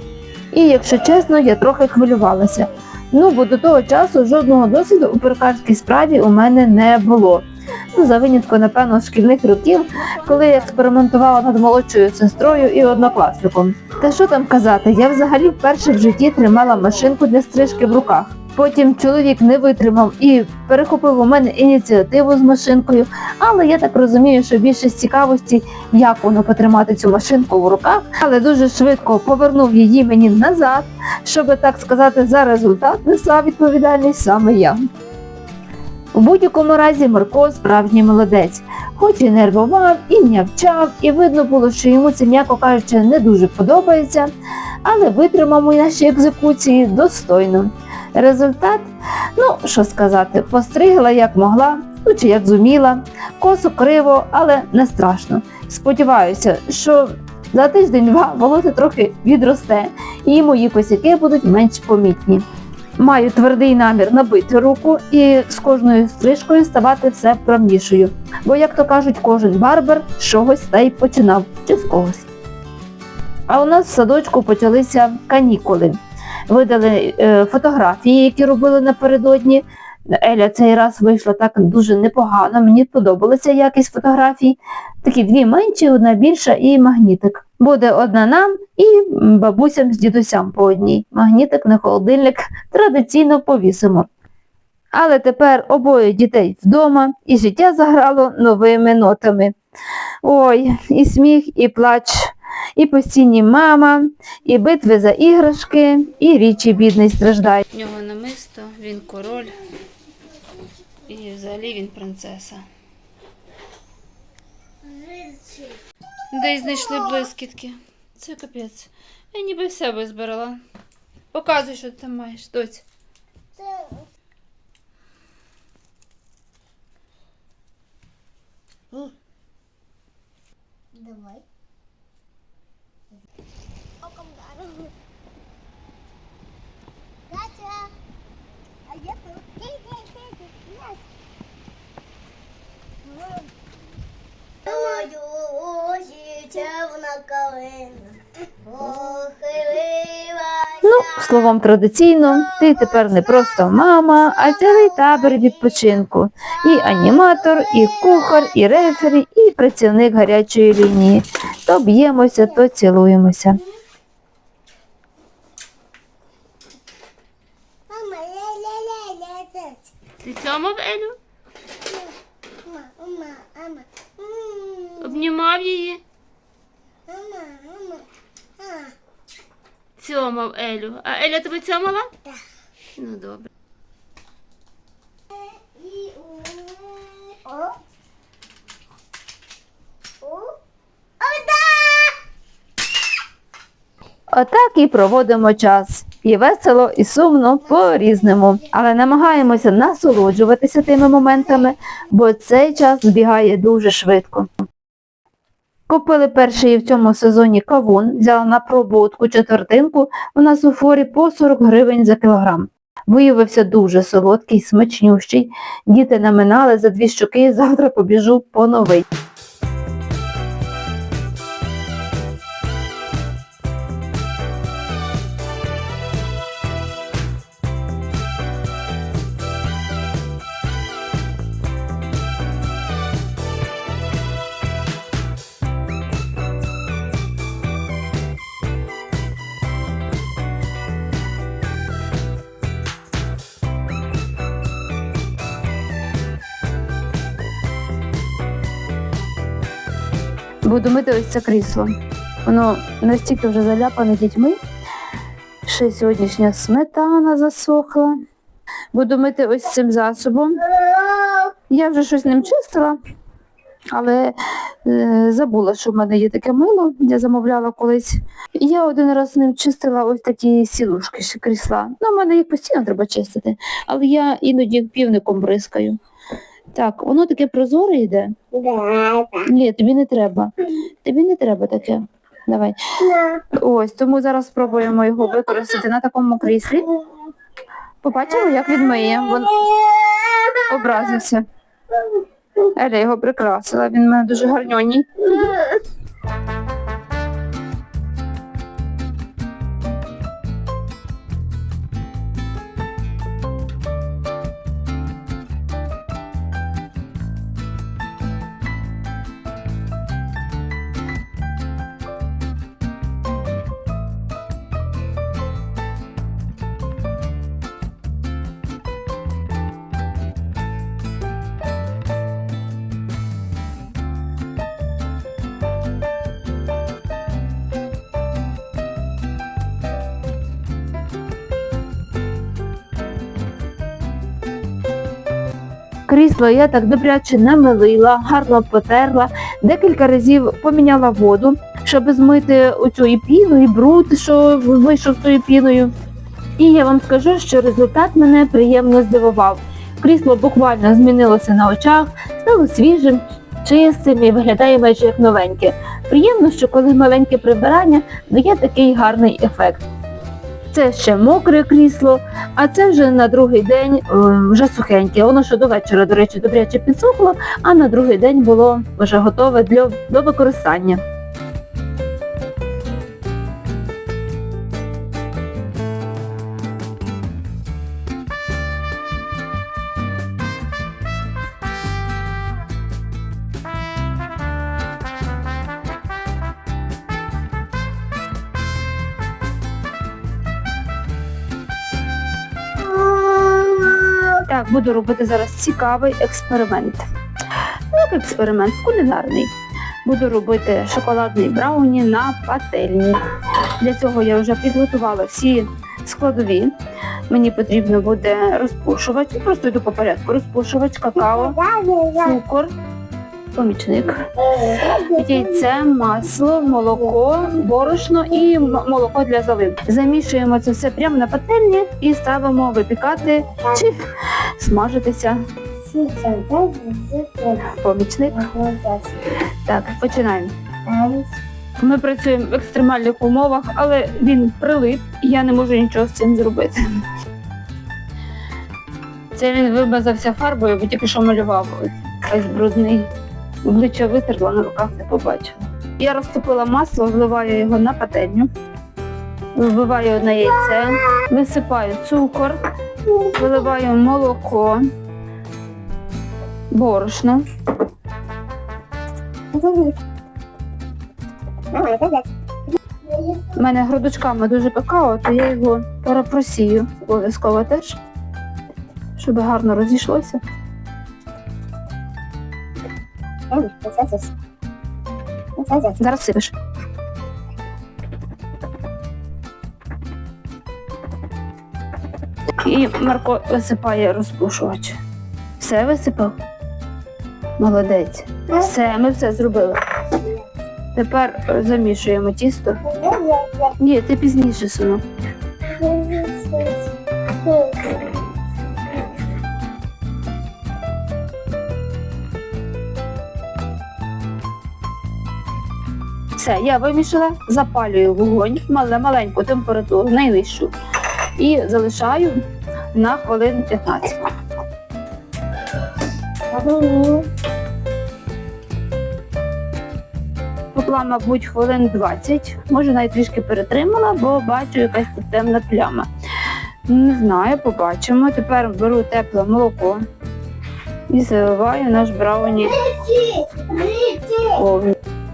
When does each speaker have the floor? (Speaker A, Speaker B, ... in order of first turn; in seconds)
Speaker A: 0.5-34.8, 36.1-44.3, 44.8-62.4, 63.0-72.3, 73.5-76.0, 76.5-94.1, 94.9-99.5, 100.2-109.6, 111.0-112.6, 116.3-120.6, 121.3-122.8, 150.8-163.6, 194.3-204.5, 205.9-219.1, 250.6-251.9, 252.4-254.6, 255.6-258.1, 258.9-260.5, 261.7-263.0, 263.9-276.0, 276.7-278.7, 279.3-280.5, 281.0-286.9, 288.0-289.9, 290.5-291.4, 292.8-295.7, 336.1-345.9, 346.6-359.8, 360.7-371.0, 394.3-397.0, 397.9-399.5, 400.0-403.2, 403.8-406.7, 407.3-412.7, 413.5-414.2, 414.8-425.4, 427.6-428.6, 429.6-430.5, 431.8-436.8, 439.3-443.1, 443.6-448.5, 449.5-452.6, 453.1-454.8, 456.7-457.4, 463.4-468.0, 469.1-470.4, 475.7-476.5, 482.6-485.0, 485.6-486.3, 487.6-490.2, 490.9-493.0, 493.7-495.0, 506.4-510.7, 511.4-512.4, 512.9-514.3, 516.6-517.1, 520.7-526.1, 526.9-530.0, 531.1-533.4, 534.3-534.9
Speaker B: 114.9-115.8, 123.6-124.0, 130.9-131.4, 134.0-134.9, 137.3-137.9, 138.9-141.0, 144.7-150.9, 167.9-169.9, 172.6-175.2, 177.1-178.1, 178.6-178.9, 185.3-187.8, 190.2-190.6, 191.2-192.2, 198.0-198.5, 278.7-279.2, 393.1-393.6, 411.7-412.1, 414.6-415.0, 425.9-427.6, 428.5-429.2, 430.9-431.3, 459.5-460.0, 461.7-462.3, 473.5-474.3, 493.1-493.5, 495.7-496.8, 497.4-497.9, 516.5-517.2, 533.3-534.2
Speaker C: 170.2-171.2, 175.0-176.0, 180.0-182.1, 182.9-183.5